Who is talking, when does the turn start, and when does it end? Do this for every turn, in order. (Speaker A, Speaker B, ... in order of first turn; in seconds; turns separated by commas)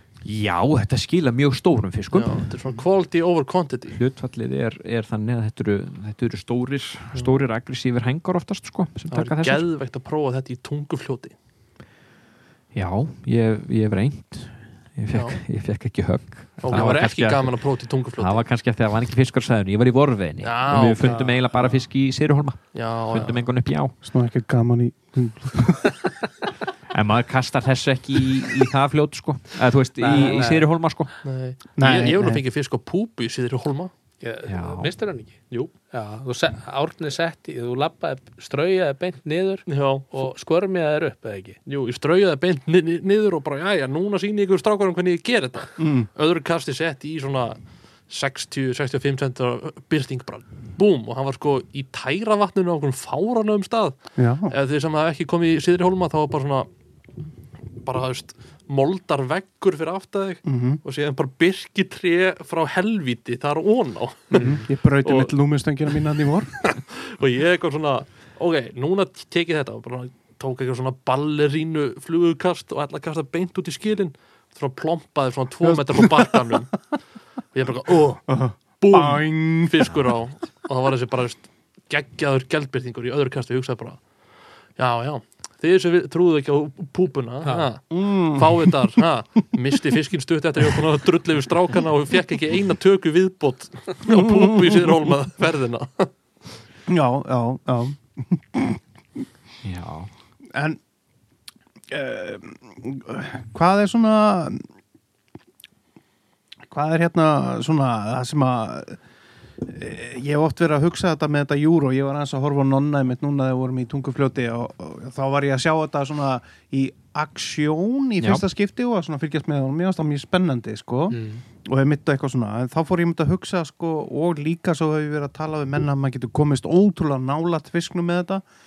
Speaker A: 0.2-2.5, Speaker B: 2.1-4.0, Speaker A: 3.9-9.7, Speaker B: 9.1-11.4, Speaker A: 12.7-23.9, Speaker B: 15.1-15.4, Speaker B: 16.6-18.4, Speaker B: 20.4-21.4, Speaker C: 21.0-21.8, Speaker B: 22.7-23.5, Speaker D: 23.9-26.1, Speaker A: 26.9-31.1, Speaker C: 30.0-30.7, Speaker B: 30.1-30.6, Speaker B: 31.2-33.9, Speaker D: 31.8-32.4, Speaker C: 34.2-41.6, Speaker A: 34.4-35.0, Speaker B: 39.7-40.1, Speaker B: 41.7-56.7, Speaker D: 45.8-46.1, Speaker D: 54.2-54.5, Speaker B: 57.8-65.3, Speaker D: 60.5-60.8, Speaker C: 64.3-64.7, Speaker D: 64.3-66.7, Speaker B: 66.6-84.1, Speaker D: 78.3-79.9, Speaker B: 84.8-96.1, Speaker D: 87.9-88.8, Speaker D: 94.1-94.7, Speaker D: 96.9-98.8, Speaker A: 99.6-100.1, Speaker D: 100.5-100.8, Speaker D: 101.9-104.7, Speaker D: 106.7-109.0, Speaker D: 109.6-128.4, Speaker C: 121.1-121.4